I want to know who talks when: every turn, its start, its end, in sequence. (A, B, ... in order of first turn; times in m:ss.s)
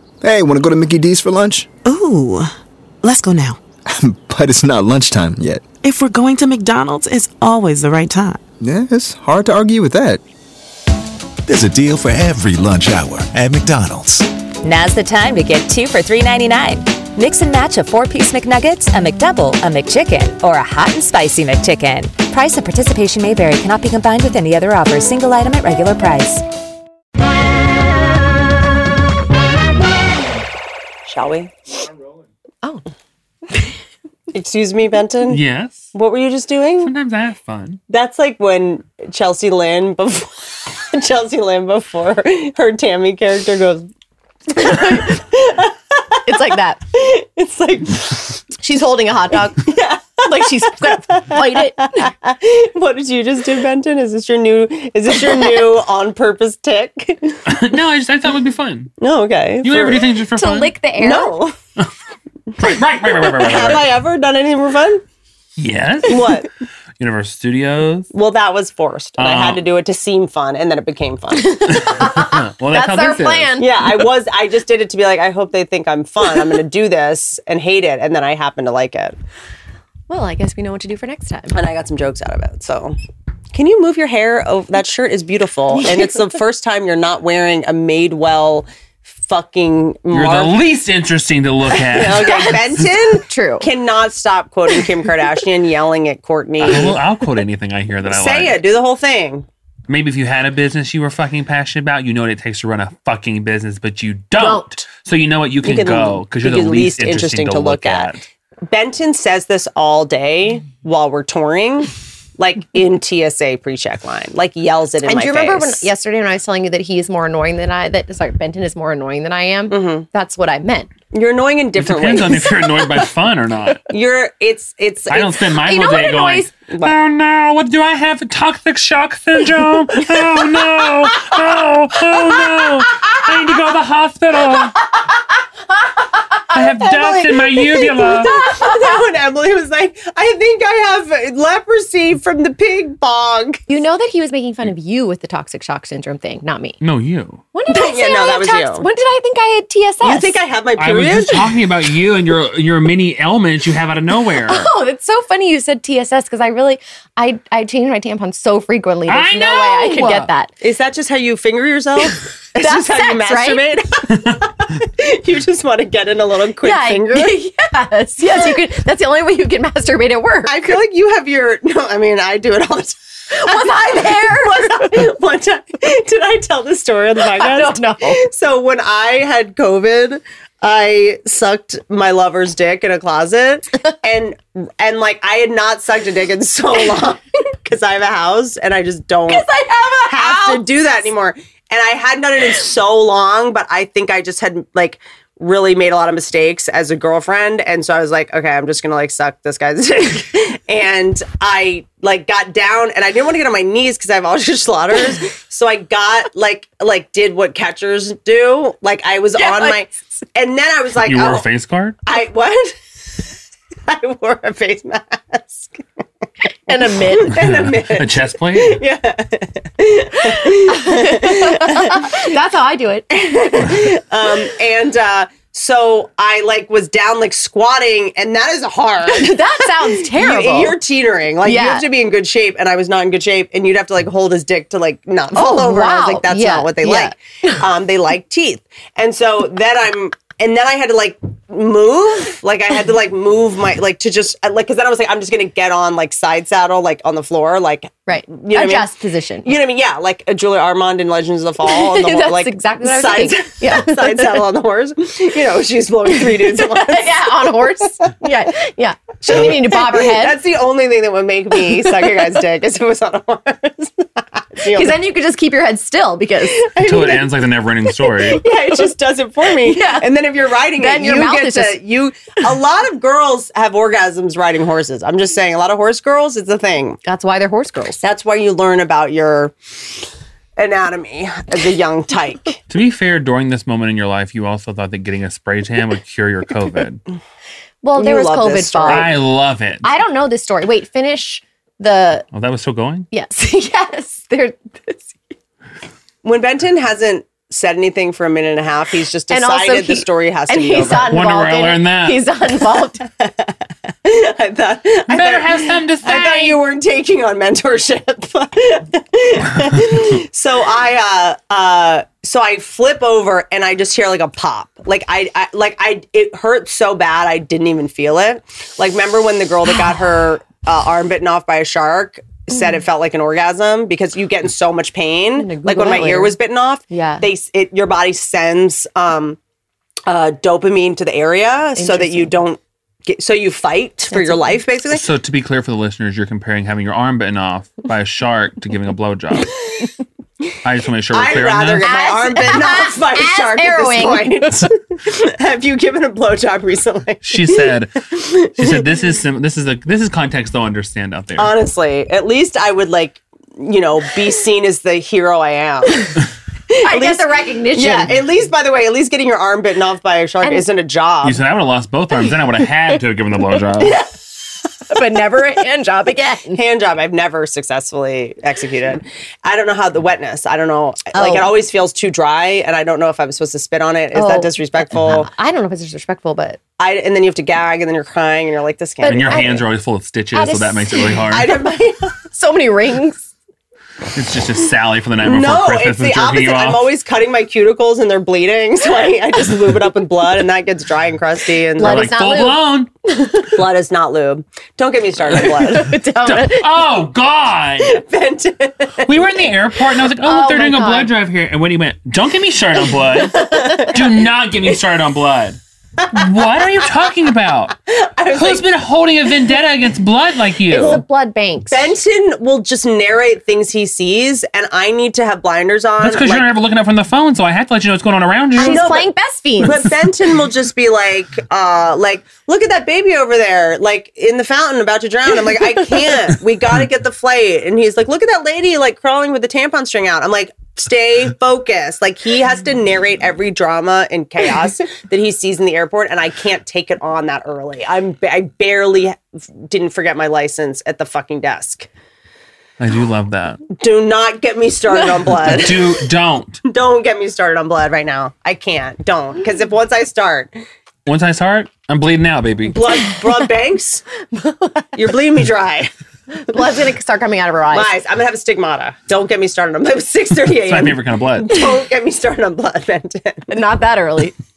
0:00.2-0:01.7 A
0:01.8-0:02.5 B
0:03.0-0:03.6 B
0:03.9-0:05.7 A
0:05.8-0:08.4 B
0:08.6-0:10.2 A
0:11.4-0:14.3 C
0:14.6-0:26.4 D
0:31.1-0:31.9 E
0:34.3-0:35.4 E
0:35.3-0:35.9 F
0:35.9-0:36.9 E
0:36.8-0:37.8 F
0:37.9-0:43.9 E
0:44.5-0:46.3 E
0:44.6-0:45.0 G
0:46.2-0:46.8 G
0:46.9-0:48.4 E
0:48.5-0:49.7 G
0:49.5-0:57.4 E
0:50.2-0:52.1 G
0:57.4-0:58.9 F
0:59.0-1:00.1 E
0:59.6-1:00.7 F
1:00.3-1:01.4 G
1:01.0-1:01.5 E
1:02.6-1:03.9 F
1:02.6-1:05.0 E
1:05.6-1:06.4 F
1:06.0-1:06.5 E
1:07.0-1:08.1 F
1:08.1-1:12.0 E
1:09.2-1:09.6 F
1:11.3-1:13.7 G
1:11.7-1:13.6 F
1:13.6-1:19.2 E
1:20.1-1:21.5 G
1:21.5-1:23.0 E
1:23.5-1:28.6 E
1:25.8-1:26.0 G
1:29.2-1:30.6 E
1:30.1-1:32.7 F
1:31.8-1:37.0 E
1:32.3-1:33.7 G
1:36.6-1:38.6 F
1:38.1-1:39.4 E
1:39.9-1:48.2 F
1:44.4-1:44.7 G
1:45.6-1:48.1 E
1:48.7-1:55.8 E
1:55.0-2:00.9 G
1:59.7-2:00.1 E
2:01.1-2:02.7 E
2:01.8-2:03.9 F
2:03.9-2:05.3 E
2:05.1-2:14.8 F
2:05.4-2:06.5 G
2:06.7-2:06.9 E
2:16.5-2:18.3 F
2:16.6-2:23.6 E
2:18.0-2:19.1 G
2:23.7-2:26.8 G
2:26.8-2:27.4 F
2:27.5-2:30.4 G
2:27.7-2:28.8 E
2:30.0-2:31.6 E
2:30.8-2:34.7 F
2:34.4-2:40.5 G
2:39.1-2:40.3 F
2:40.6-2:47.4 E
2:42.6-2:43.6 G
2:46.6-2:50.8 G
2:50.4-3:09.4 E
2:53.3-2:55.0 G
2:57.2-2:58.2 G
3:09.3-3:10.9 G
3:10.1-3:31.4 E
3:29.4-3:29.8 G
3:31.0-3:32.0 F
3:32.0-3:32.7 E
3:33.9-3:35.8 E
3:36.7-3:37.4 G
3:36.7-3:42.2 E
3:37.3-3:38.8 F
3:40.3-3:43.8 G
3:43.5-4:08.8 E
3:49.0-3:50.8 G
3:51.4-3:51.8 G
3:55.3-3:57.1 G
4:08.1-4:09.5 G
4:09.4-4:17.7 E
4:11.7-4:14.5 G
4:16.2-4:20.4 G
4:19.2-4:25.1 E
4:24.7-4:26.6 G
4:26.5-4:27.5 E
4:26.8-4:28.4 F
4:28.1-4:37.0 E
4:29.5-4:30.1 G
4:30.7-4:31.8 G
4:37.0-4:38.0 G
4:38.0-4:39.5 E
4:40.6-4:42.6 E
4:42.7-4:47.0 F
4:47.8-4:49.2 G
4:47.9-4:49.1 E
4:48.9-4:49.9 F
4:49.8-4:52.2 G
4:52.3-4:53.1 F
4:53.1-4:55.1 G
4:56.2-5:01.2 E
4:59.3-5:03.0 G
5:01.1-5:02.3 F
5:03.1-5:03.5 E
5:04.0-5:29.4 E
5:05.1-5:06.6 F
5:25.4-5:26.4 G
5:26.9-5:27.3 G
5:30.0-5:35.0 E
5:31.8-5:32.3 G
5:34.1-5:34.6 G
5:34.9-5:39.5 F
5:40.6-5:41.9 F
5:41.1-5:48.8 E
5:41.8-5:44.7 G
5:47.2-5:51.5 F
5:51.4-5:56.2 E
5:56.7-6:01.4 E
5:56.7-5:58.3 G
6:01.2-6:04.0 F
6:04.9-6:06.6 G
6:06.5-6:15.3 E
6:11.1-6:11.6 G
6:14.1-6:16.6 G
6:16.8-6:19.5 E
6:19.0-6:19.7 G
6:19.0-6:21.5 F
6:20.3-6:21.3 G
6:21.3-6:22.2 E
6:22.3-6:23.3 G
6:24.1-6:26.9 F
6:25.2-6:32.1 E
6:31.8-6:33.3 G
6:31.8-6:32.9 F
6:33.4-6:36.0 E
6:35.3-6:38.0 F
6:35.5-6:36.7 G
6:37.8-6:39.3 E
6:39.0-6:45.6 F
6:40.2-6:41.1 G
6:43.4-6:44.0 E
6:43.4-6:43.9 G
6:46.1-6:47.7 F
6:47.9-6:48.6 E
6:48.3-6:51.0 F
6:50.7-6:51.9 G
6:51.7-6:56.5 E
6:56.0-6:58.9 F
6:58.6-6:59.9 G
6:58.6-6:59.1 E
6:59.6-7:21.9 E
7:22.8-7:23.6 F
7:23.7-7:26.0 E
7:25.3-7:26.6 F
7:26.6-7:30.5 E
7:31.0-7:32.9 F
7:32.6-7:34.0 E
7:34.3-7:34.9 G
7:35.0-7:35.9 E
7:36.4-7:38.0 G
7:37.7-7:43.5 E
7:40.6-7:41.6 F
7:43.5-7:44.3 G